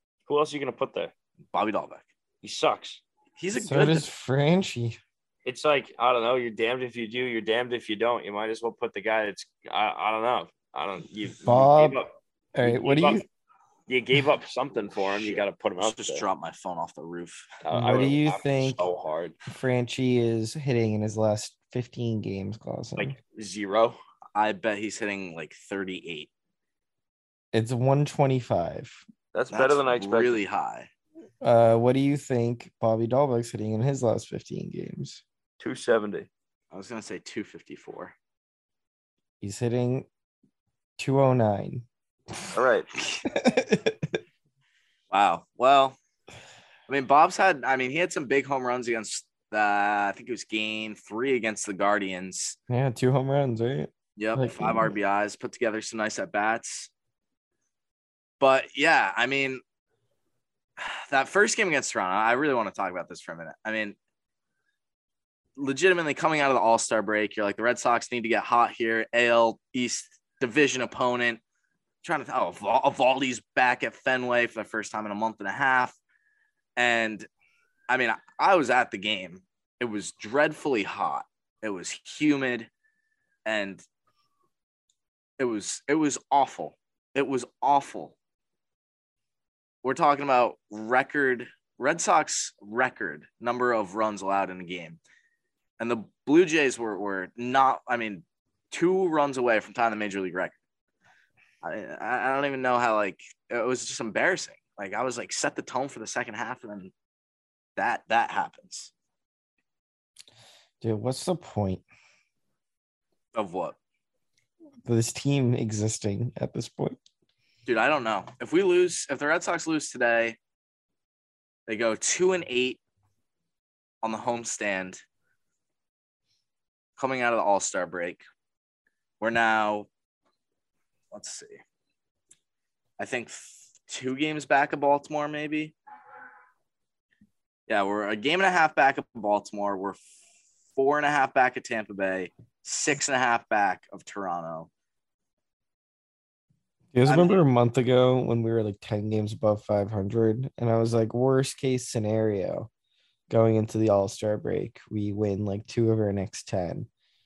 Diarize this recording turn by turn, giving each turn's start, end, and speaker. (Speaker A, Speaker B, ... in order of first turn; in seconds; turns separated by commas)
Speaker A: 0.3-1.1, Speaker B: 1.5-2.0, Speaker A: 2.4-3.0, Speaker B: 3.4-4.1, Speaker C: 3.5-5.0, Speaker A: 5.5-13.2, Speaker C: 11.4-13.3, Speaker A: 13.9-16.2, Speaker B: 15.2-17.5, Speaker A: 17.6-19.4, Speaker C: 17.7-18.9, Speaker C: 19.5-23.2, Speaker A: 23.0-24.0, Speaker B: 24.4-26.3, Speaker C: 27.5-29.0, Speaker A: 29.3-30.4, Speaker B: 29.5-30.9, Speaker C: 31.4-35.2, Speaker A: 35.6-36.3, Speaker B: 36.7-38.1, Speaker C: 39.4-40.1, Speaker C: 41.0-41.9, Speaker A: 42.5-42.9, Speaker C: 43.2-44.2, Speaker B: 45.1-46.0, Speaker B: 46.9-52.6, Speaker C: 52.7-54.9, Speaker B: 54.2-56.9, Speaker B: 58.4-59.6, Speaker B: 60.8-64.0, Speaker B: 65.6-71.4, Speaker B: 72.0-76.0, Speaker B: 76.8-77.3, Speaker B: 77.9-82.7, Speaker B: 83.5-83.8, Speaker B: 85.4-88.2, Speaker B: 89.8-95.0, Speaker B: 95.8-100.6, Speaker B: 101.6-106.9, Speaker B: 107.8-108.9, Speaker C: 110.8-111.8, Speaker B: 113.3-113.8, Speaker C: 114.8-117.0, Speaker B: 117.7-120.4, Speaker B: 121.7-122.8, Speaker B: 124.0-125.0, Speaker B: 127.0-128.2, Speaker B: 129.2-129.9, Speaker B: 131.1-131.6, Speaker B: 133.0-135.8, Speaker B: 137.7-140.0, Speaker B: 140.8-144.7, Speaker C: 146.9-152.7, Speaker B: 147.1-147.4, Speaker C: 153.3-156.9